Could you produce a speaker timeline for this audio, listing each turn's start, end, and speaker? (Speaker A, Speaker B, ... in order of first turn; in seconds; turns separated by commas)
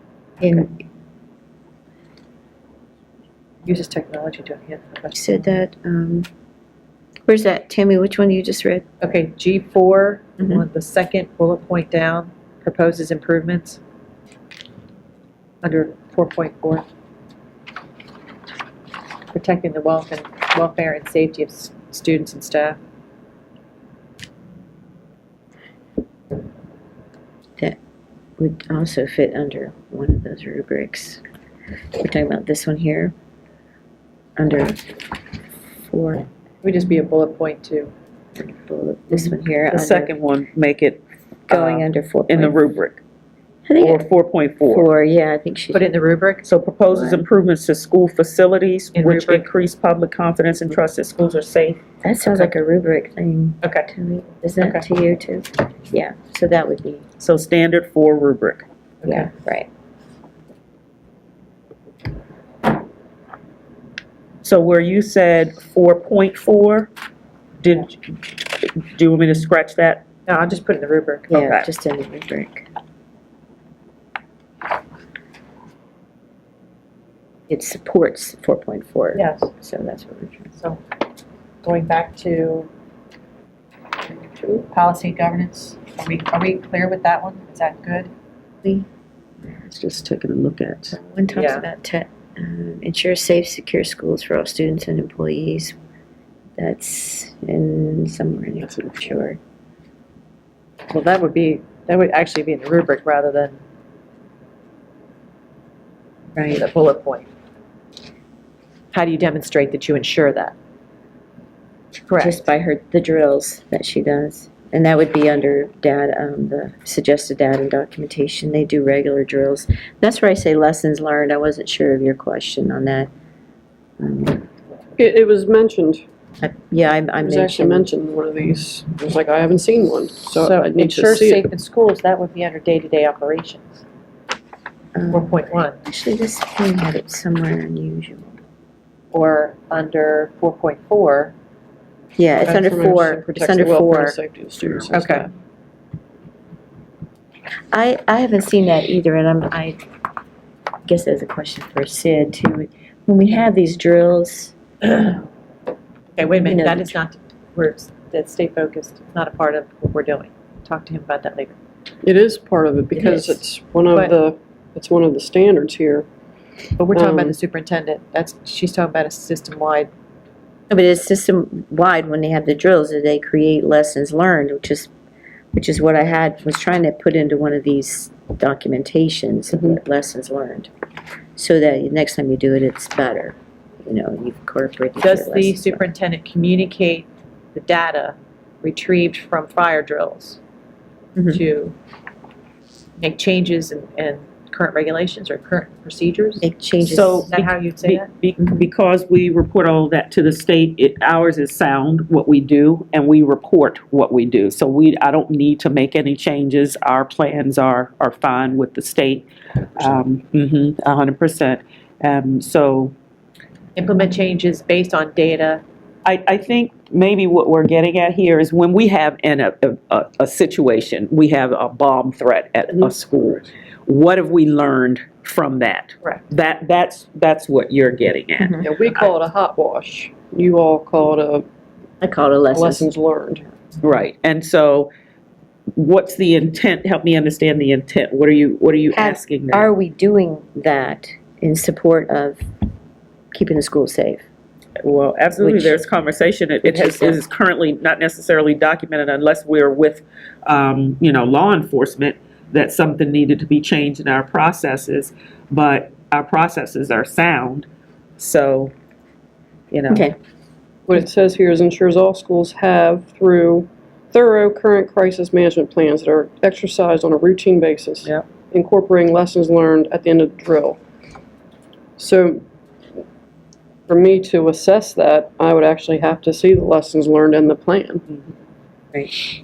Speaker A: 0.4-0.7, Speaker B: 3.6-5.6, Speaker A: 5.1-6.3, Speaker A: 7.3-8.8, Speaker B: 9.0-13.8, Speaker B: 15.6-16.9, Speaker B: 19.3-22.8, Speaker A: 28.4-31.2, Speaker A: 32.0-33.1, Speaker A: 34.4-34.8, Speaker A: 35.8-36.2, Speaker B: 36.6-37.9, Speaker A: 38.4-40.1, Speaker C: 39.7-43.0, Speaker A: 41.5-42.6, Speaker A: 43.6-44.1, Speaker C: 43.8-44.9, Speaker A: 44.6-45.8, Speaker B: 45.7-46.5, Speaker C: 46.4-51.8, Speaker A: 46.9-47.2, Speaker B: 48.9-49.5, Speaker A: 52.0-57.0, Speaker B: 53.6-53.9, Speaker B: 54.6-54.9, Speaker C: 57.2-58.6, Speaker B: 59.0-59.3, Speaker A: 59.0-59.7, Speaker C: 64.4-66.9, Speaker C: 67.6-70.0, Speaker B: 70.3-71.4, Speaker A: 71.3-72.7, Speaker C: 71.3-71.7, Speaker A: 77.5-80.5, Speaker B: 79.1-79.5, Speaker B: 81.6-82.7, Speaker B: 84.4-88.1, Speaker C: 89.7-91.0, Speaker A: 90.9-95.7, Speaker B: 91.3-91.7, Speaker A: 96.6-99.4, Speaker B: 100.9-103.6, Speaker A: 106.3-106.6, Speaker B: 106.5-107.3, Speaker B: 108.9-110.5, Speaker B: 112.1-112.5, Speaker A: 112.2-123.1, Speaker A: 124.0-124.4, Speaker D: 125.0-126.0, Speaker A: 126.4-127.9, Speaker D: 127.2-131.4, Speaker B: 130.4-133.8, Speaker A: 134.9-138.4, Speaker B: 135.1-135.8, Speaker B: 139.1-141.3, Speaker A: 142.2-144.2, Speaker D: 142.4-145.3, Speaker B: 144.9-145.2, Speaker A: 147.7-149.8, Speaker A: 150.8-155.1, Speaker B: 156.2-161.6, Speaker A: 156.2-156.9, Speaker D: 162.0-166.1, Speaker B: 163.9-164.2, Speaker B: 166.8-169.9, Speaker D: 166.9-167.3, Speaker A: 170.7-174.9, Speaker A: 175.5-180.7, Speaker A: 181.3-185.8, Speaker B: 185.0-190.4, Speaker B: 191.2-191.7, Speaker B: 193.0-196.5, Speaker A: 196.4-197.3, Speaker C: 196.8-212.9, Speaker B: 197.3-198.1, Speaker B: 213.8-215.6, Speaker C: 216.0-228.6, Speaker A: 228.4-228.7, Speaker D: 228.6-231.4, Speaker A: 232.0-232.9, Speaker D: 232.5-233.5, Speaker C: 233.8-234.9, Speaker C: 235.7-239.7, Speaker A: 238.9-242.4, Speaker A: 243.3-244.2, Speaker C: 244.8-257.7, Speaker A: 245.4-245.8, Speaker A: 246.6-247.2, Speaker C: 258.2-258.7, Speaker C: 259.7-260.1, Speaker A: 259.9-260.1, Speaker D: 260.9-270.8, Speaker D: 272.0-272.4, Speaker D: 273.9-278.0